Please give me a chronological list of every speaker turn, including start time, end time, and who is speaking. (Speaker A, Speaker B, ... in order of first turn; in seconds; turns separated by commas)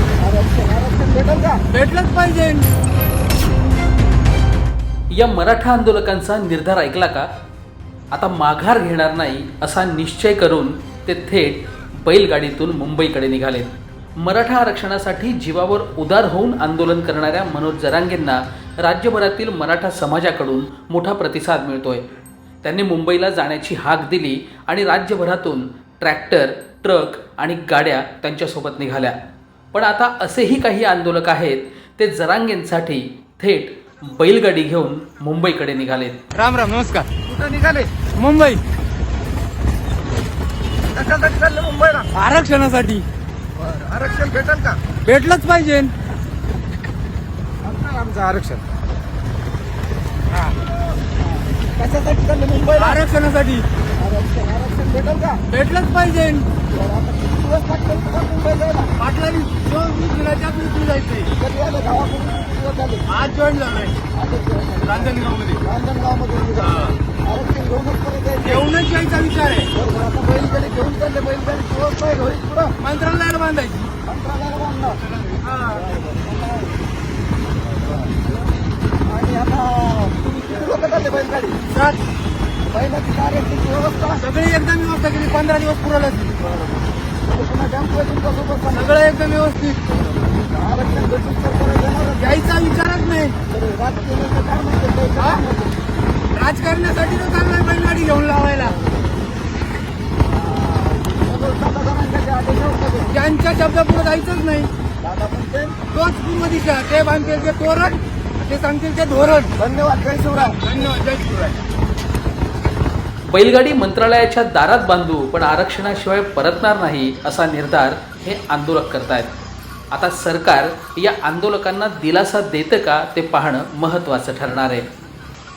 Speaker A: 0.2-1.6, Speaker B: 1.7-2.7, Speaker C: 5.1-7.3, Speaker C: 8.1-22.1, Speaker C: 22.6-29.2, Speaker C: 29.7-36.2, Speaker B: 36.4-37.1, Speaker A: 37.3-37.9, Speaker B: 38.1-38.6, Speaker A: 40.9-42.1, Speaker B: 42.1-43.1, Speaker A: 43.6-44.8, Speaker B: 45.0-45.9, Speaker A: 47.7-48.7, Speaker A: 51.8-53.0, Speaker B: 52.7-53.7, Speaker A: 54.0-55.4, Speaker B: 55.5-56.5, Speaker A: 56.7-58.9, Speaker B: 59.0-61.3, Speaker A: 61.4-63.0, Speaker B: 63.1-64.0, Speaker A: 64.2-64.9, Speaker B: 64.8-65.6, Speaker A: 65.7-68.5, Speaker B: 66.6-67.0, Speaker B: 68.4-69.7, Speaker A: 69.8-72.7, Speaker B: 72.8-73.9, Speaker A: 74.0-75.0, Speaker B: 75.4-75.8, Speaker A: 76.0-76.6, Speaker A: 79.1-81.6, Speaker B: 81.7-82.0, Speaker A: 82.7-84.2, Speaker B: 84.2-86.4, Speaker A: 87.3-88.8, Speaker B: 88.7-89.8, Speaker A: 90.5-92.1, Speaker B: 92.1-93.4, Speaker A: 93.5-95.8, Speaker B: 95.2-95.4, Speaker B: 96.3-98.8, Speaker A: 100.5-103.1, Speaker B: 103.1-104.7, Speaker A: 105.0-105.8, Speaker B: 105.9-109.6, Speaker A: 109.6-110.7, Speaker B: 110.6-111.6, Speaker C: 113.3-119.3, Speaker C: 119.9-124.9